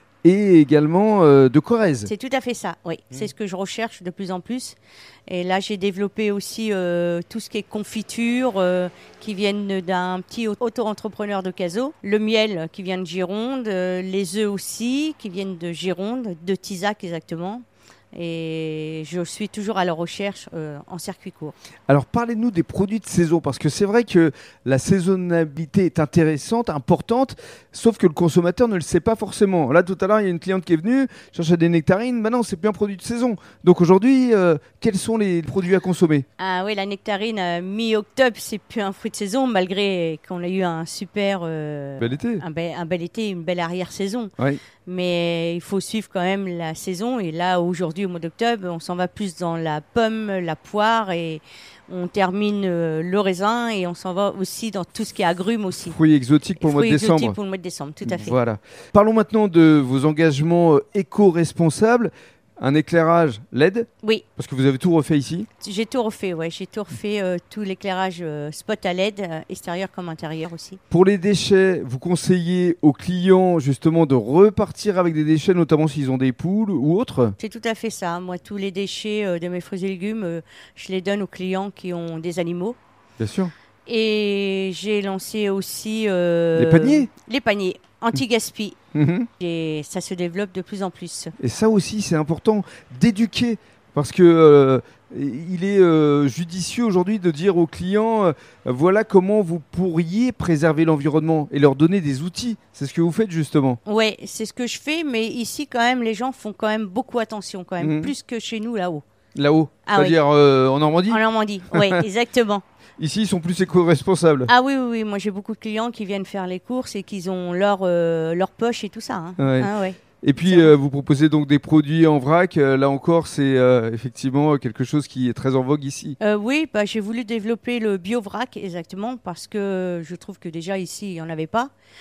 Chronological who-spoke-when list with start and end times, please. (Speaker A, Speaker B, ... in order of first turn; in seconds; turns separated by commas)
Speaker A: 0.2-2.1, Speaker B: 2.1-4.8, Speaker B: 5.3-21.6, Speaker A: 21.9-36.3, Speaker B: 36.4-44.3, Speaker A: 42.0-42.4, Speaker B: 44.9-56.0, Speaker A: 55.8-57.4, Speaker B: 56.6-58.4, Speaker A: 58.0-65.5, Speaker B: 65.6-70.8, Speaker A: 70.9-77.4, Speaker B: 77.4-82.8, Speaker A: 83.2-83.5, Speaker B: 83.9-88.8, Speaker A: 86.6-87.1, Speaker A: 88.9-89.3, Speaker B: 89.4-91.3, Speaker A: 91.4-103.8, Speaker B: 103.8-109.0, Speaker A: 107.8-108.1, Speaker A: 109.4-111.2, Speaker B: 109.9-110.2, Speaker B: 111.1-112.6, Speaker A: 111.7-112.0, Speaker A: 113.0-114.5, Speaker B: 114.5-120.7, Speaker A: 119.4-119.7, Speaker A: 120.2-126.2, Speaker B: 126.2-131.7